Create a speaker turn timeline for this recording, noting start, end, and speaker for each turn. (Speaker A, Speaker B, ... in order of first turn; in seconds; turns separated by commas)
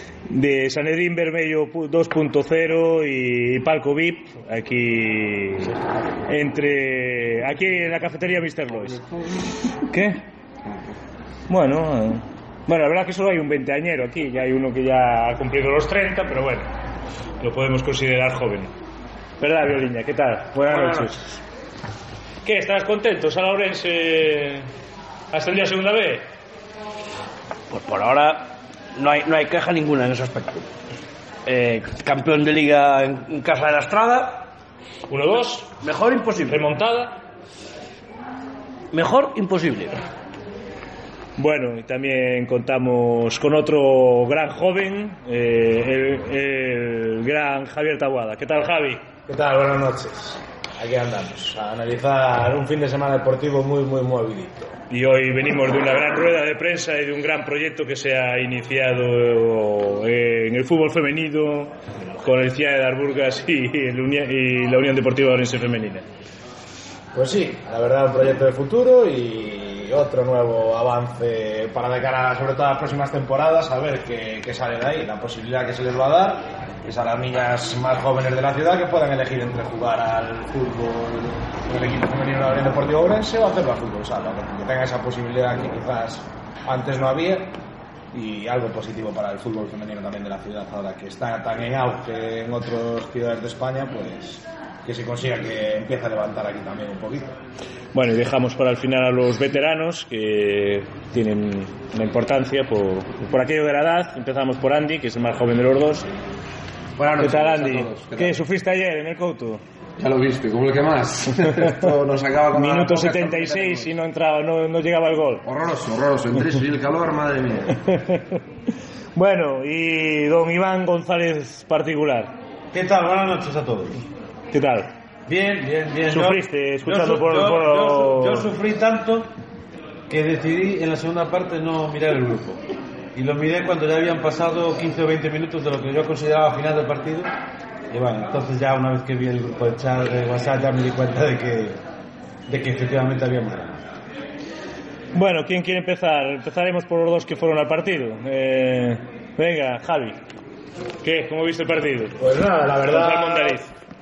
Speaker A: 0.3-5.7, Speaker A: 6.2-9.0, Speaker A: 9.8-10.2, Speaker A: 11.5-16.7, Speaker A: 17.4-18.7, Speaker A: 19.4-21.4, Speaker B: 20.7-21.1, Speaker A: 22.4-24.7, Speaker A: 25.3-26.2, Speaker B: 27.7-30.7, Speaker B: 31.4-34.5, Speaker A: 35.1-35.7, Speaker B: 35.8-36.7, Speaker A: 36.4-37.2, Speaker B: 38.9-40.0, Speaker A: 41.4-49.0, Speaker C: 49.3-54.7, Speaker A: 54.9-66.0, Speaker C: 67.1-87.5, Speaker C: 88.1-97.3, Speaker A: 97.9-106.1, Speaker D: 107.0-108.4, Speaker A: 107.2-109.6, Speaker D: 110.0-113.9, Speaker A: 112.5-115.4, Speaker D: 115.4-117.8, Speaker A: 117.8-118.2, Speaker A: 119.1-122.3, Speaker E: 122.7-124.0, Speaker A: 124.5-124.9, Speaker E: 125.3-129.3, Speaker A: 126.1-128.5, Speaker E: 130.1-132.6, Speaker E: 133.1-137.3, Speaker E: 137.9-141.8, Speaker E: 142.5-143.8, Speaker A: 145.1-150.2, Speaker A: 151.0-152.2, Speaker C: 152.2-153.6, Speaker A: 152.9-153.7